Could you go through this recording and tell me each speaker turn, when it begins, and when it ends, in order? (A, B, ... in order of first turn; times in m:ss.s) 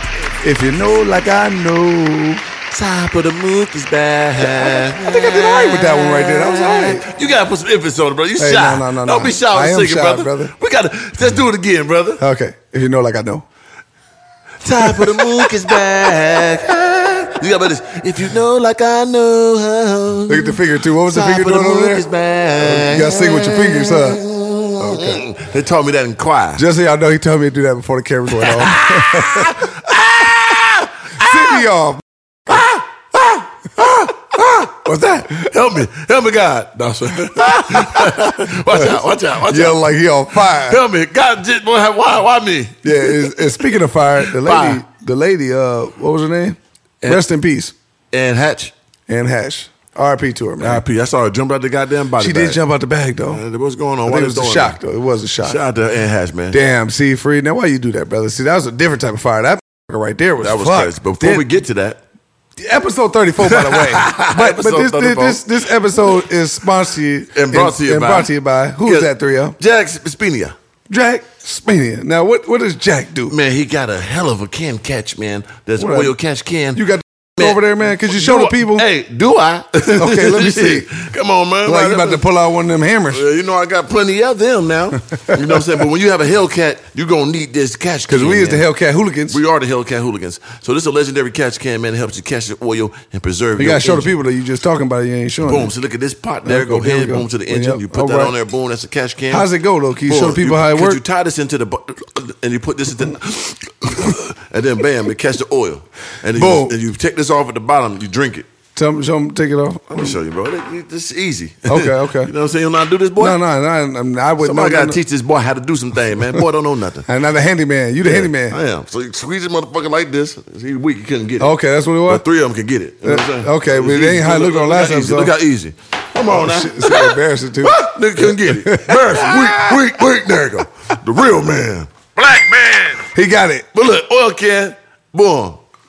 0:00.4-0:02.4 A
0:02.7-0:12.2 B
0:04.4-0:07.1 A
0:08.4-0:10.5 A
0:12.2-0:13.4 A
0:14.6-0:26.6 B
0:14.9-0:15.2 A
0:20.3-0:24.2 A
0:24.8-0:25.2 A
0:26.6-0:29.6 A
0:28.4-0:31.6 B
0:31.2-0:32.0 A
0:32.5-0:43.6 B
0:34.8-0:35.5 A
0:37.6-0:38.9 A
0:39.5-0:40.8 A
0:42.8-0:47.7 A
0:44.2-0:44.8 B
0:48.1-0:48.7 B
0:49.1-0:50.8 A
0:50.6-0:52.6 B
0:52.2-0:53.4 A
0:53.2-0:54.8 B
0:54.0-0:55.6 A
0:55.4-0:56.6 B
0:56.5-1:01.5 A
1:00.4-1:02.0 B
1:02.6-1:09.6 A
1:03.4-1:05.5 B
1:07.3-1:10.6 B
1:10.9-1:13.4 A
1:13.3-1:16.8 B
1:15.8-1:16.1 A
1:16.8-1:18.9 A
1:17.4-1:22.3 B
1:19.9-1:20.9 A
1:21.6-1:23.2 A
1:23.1-1:28.7 B
1:25.2-1:25.6 A
1:28.1-1:29.4 A
1:29.3-1:34.2 B
1:33.6-1:35.7 A
1:35.4-1:39.5 B
1:36.4-1:38.3 A
1:39.3-1:41.0 A
1:40.0-1:48.5 B
1:46.3-1:46.8 A
1:48.8-1:50.2 A
1:49.9-1:53.4 B
1:51.7-1:52.3 A
1:53.2-1:55.0 A
1:54.4-1:57.1 B
1:57.1-1:58.6 A
1:58.0-2:01.5 B
2:01.4-2:02.2 A
2:02.0-2:13.0 B
2:03.0-2:05.3 A
2:06.3-2:09.8 A
2:13.1-2:13.7 A
2:13.7-2:15.6 B